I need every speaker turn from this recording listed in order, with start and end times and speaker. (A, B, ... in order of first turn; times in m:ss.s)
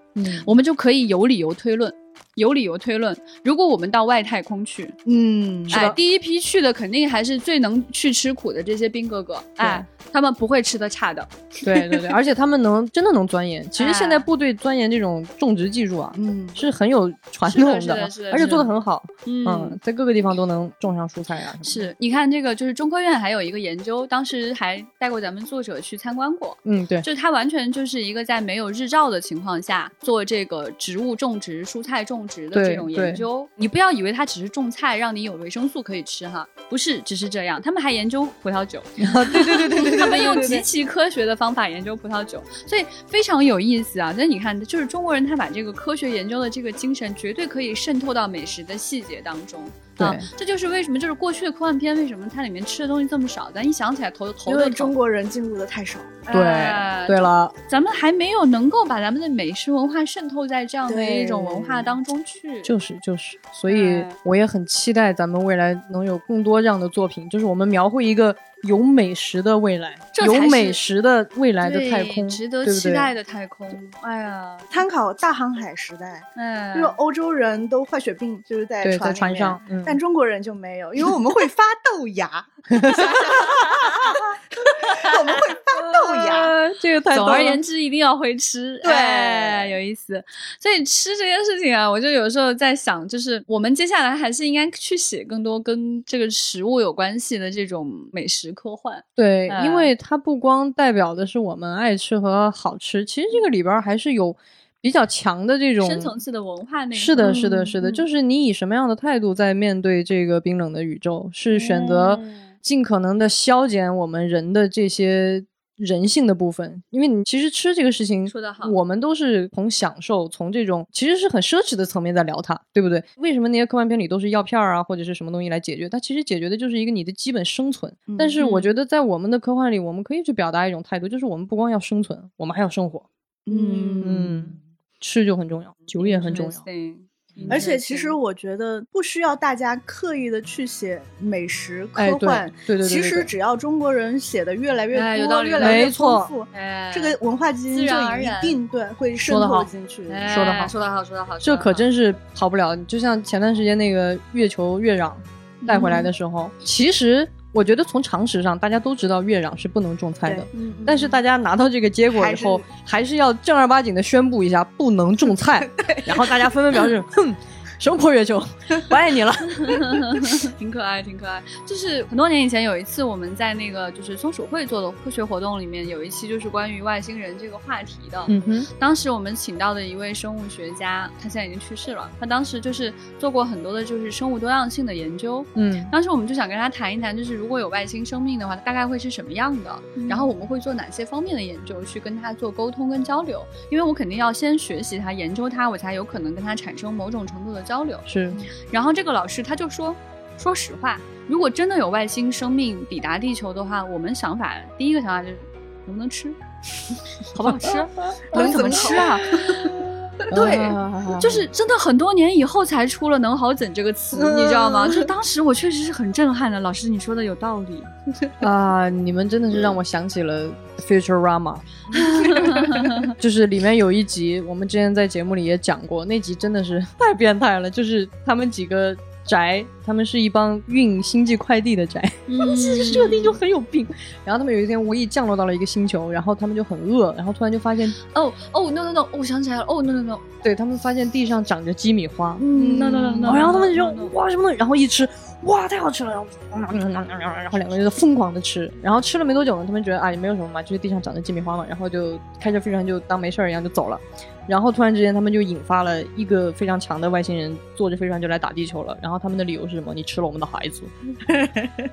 0:00.2-0:00.5 A
0:00.4-0:05.0 B
0:05.1-0:05.8 C
0:05.7-0:06.0 A
0:05.7-0:11.3 B
0:09.6-0:09.9 A
0:11.6-0:21.9 A
0:13.8-0:14.3 B
0:16.2-0:16.6 C
0:17.5-0:18.7 B
0:19.2-0:19.8 B
0:21.6-0:54.9 B
0:26.6-0:27.1 A
0:32.5-0:33.2 A
0:39.0-0:40.7 A
0:50.0-0:50.3 A
0:54.5-0:56.2 C
0:56.3-1:02.7 B
0:56.3-0:57.6 A
1:00.9-1:02.0 C
1:02.6-1:13.1 A
1:03.7-1:04.2 B
1:10.1-1:10.8 B
1:11.6-1:14.7 B
1:14.7-1:26.6 C
1:16.4-1:17.0 B
1:18.8-1:20.0 A
1:22.7-1:23.2 A
1:22.9-1:25.4 B
1:26.0-1:27.6 A
1:27.1-1:39.9 B
1:28.8-1:29.8 C
1:39.2-1:46.1 A
1:45.8-1:47.9 B
1:46.9-2:13.1 A
1:47.2-1:47.8 C
1:51.5-1:52.5 B
1:58.3-1:58.8 B
2:08.1-2:08.4 C
2:08.4-2:08.7 B
2:13.5-2:14.4 C
2:13.5-2:14.3 B
2:14.0-2:16.6 A
2:15.9-2:18.2 B
2:17.4-2:17.6 A
2:17.5-2:30.3 C
2:22.0-2:23.3 A
2:24.9-2:25.9 B
2:25.6-2:26.3 A
2:26.5-2:27.2 B
2:27.7-2:28.6 B
2:29.2-2:29.7 A
2:30.1-2:31.8 B
2:30.3-2:30.7 A
2:31.4-2:50.3 A
2:35.6-2:36.1 C
2:40.2-2:41.1 C
2:42.1-2:42.7 C
2:45.6-2:46.3 C
2:49.6-3:18.1 B
2:58.3-2:58.7 A
3:05.6-3:05.9 A
3:10.0-3:10.3 C
3:18.1-3:18.4 A
3:18.7-3:26.4 B
3:27.3-3:29.7 B
3:27.4-3:27.8 A
3:28.3-3:29.7 C
3:28.3-3:28.7 A
3:30.3-3:30.7 C
3:30.3-3:31.5 A
3:30.3-3:37.9 B
3:38.4-3:41.8 A
3:41.9-3:43.1 B
3:42.0-3:42.7 C
3:43.1-3:58.0 A
3:52.3-3:53.4 B
3:58.1-4:00.2 B
4:00.4-4:20.9 A
4:02.4-4:04.2 B
4:02.4-4:03.6 C
4:21.3-4:21.7 C